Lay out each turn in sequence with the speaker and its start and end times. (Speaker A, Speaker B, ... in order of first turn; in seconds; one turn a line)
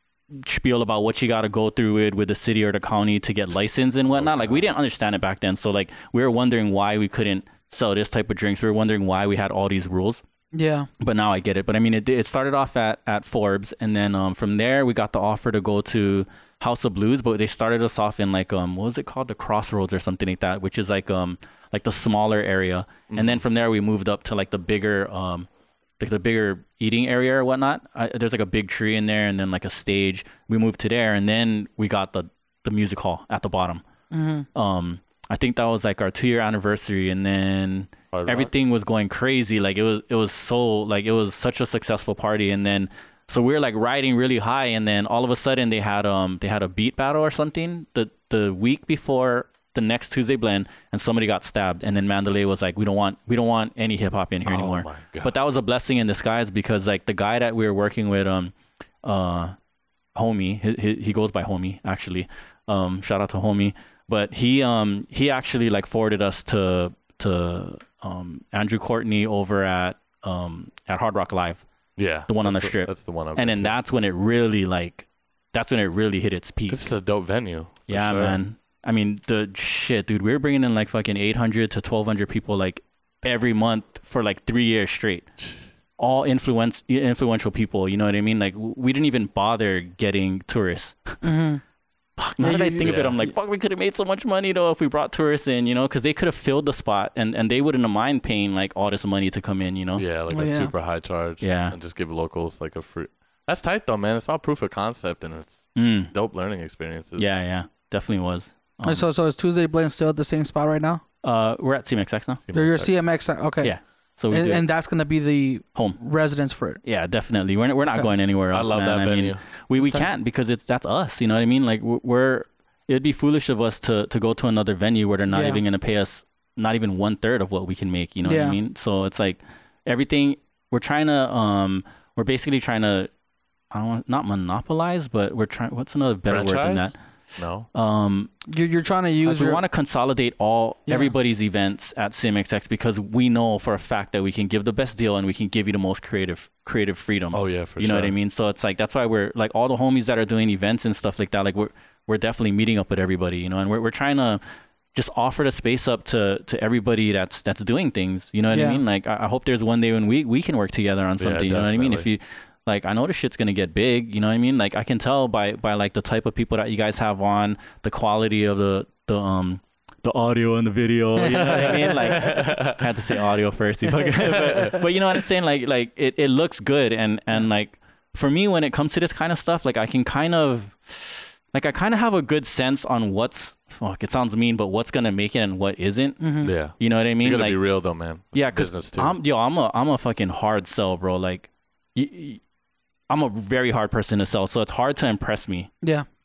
Speaker A: 0.3-10.2
Speaker B: 4.2-4.6
Speaker C: 10.5-10.9
Speaker A: 11.0-25.5
Speaker B: 23.1-23.4
Speaker A: 26.0-33.8
Speaker C: 34.1-34.5
Speaker A: 34.5-58.5
Speaker B: 38.1-38.5
Speaker B: 54.5-55.3
Speaker A: 59.0-59.5
Speaker A: 60.2-71.7
Speaker B: 72.0-73.8
Speaker A: 72.3-76.9
Speaker B: 76.7-78.4
Speaker A: 77.9-85.3
Speaker A: 86.0-91.2
Speaker C: 91.2-91.6
Speaker A: 92.2-100.0
Speaker C: 92.4-93.1
Speaker B: 92.8-93.2
Speaker B: 100.0-107.3
Speaker C: 100.3-100.7
Speaker A: 101.4-101.8
Speaker A: 105.8-106.1
Speaker A: 107.2-109.1
Speaker C: 108.8-111.0
Speaker A: 111.2-112.4
Speaker B: 112.5-112.9
Speaker C: 112.5-113.7
Speaker A: 113.6-114.6
Speaker C: 114.3-116.8
Speaker A: 116.8-133.1
Speaker B: 118.5-119.4
Speaker C: 119.8-120.1
Speaker C: 125.3-125.6
Speaker C: 128.2-128.6
Speaker A: 133.7-137.0
Speaker B: 136.3-137.7
Speaker A: 137.7-138.3
Speaker C: 138.5-139.6
Speaker A: 139.2-154.4
Speaker C: 140.9-141.1
Speaker B: 147.3-148.1
Speaker A: 154.9-187.6
Speaker C: 158.5-158.8
Speaker B: 161.2-162.1
Speaker C: 171.2-172.2
Speaker B: 172.0-172.8
Speaker B: 174.2-174.8
Speaker C: 186.2-186.5
Speaker B: 186.4-189.2
Speaker A: 188.3-192.4
Speaker A: 193.1-195.7